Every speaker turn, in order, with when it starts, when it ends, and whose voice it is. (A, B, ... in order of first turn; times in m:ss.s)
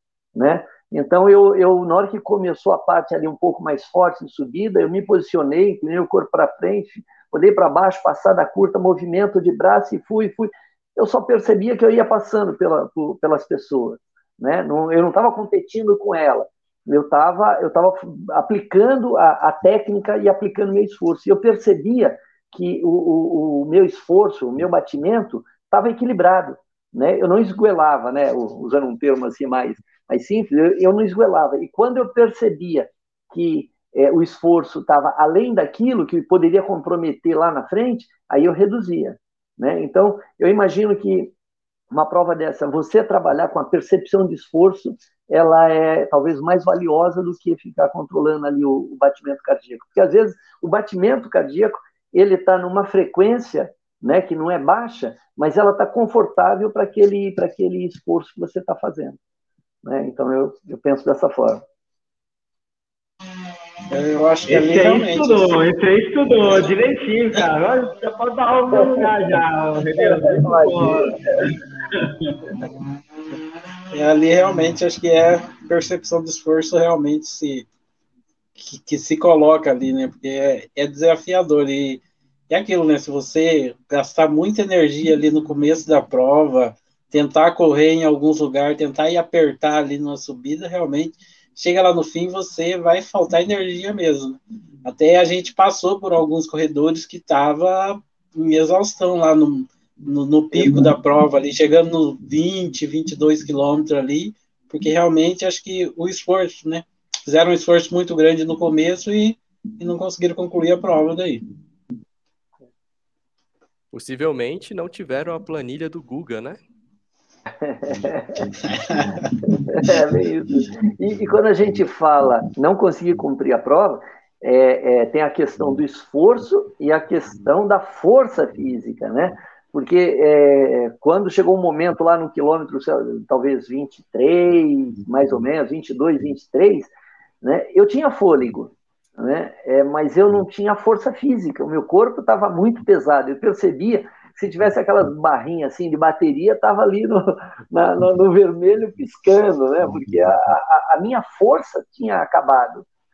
0:00.4-0:41.3 A
0:41.9-0:59.2 A
0:59.8-1:01.6 A
1:03.9-1:05.6 B
1:04.5-1:12.3 C
1:08.7-1:09.1 A
1:10.0-1:11.1 A
1:13.9-1:17.7 B
1:18.6-1:51.4 B
1:40.5-1:40.9 A
1:53.9-1:56.6 D
1:57.6-1:58.5 A
1:58.7-1:59.4 B
1:59.7-2:16.9 A
2:17.4-2:32.8 A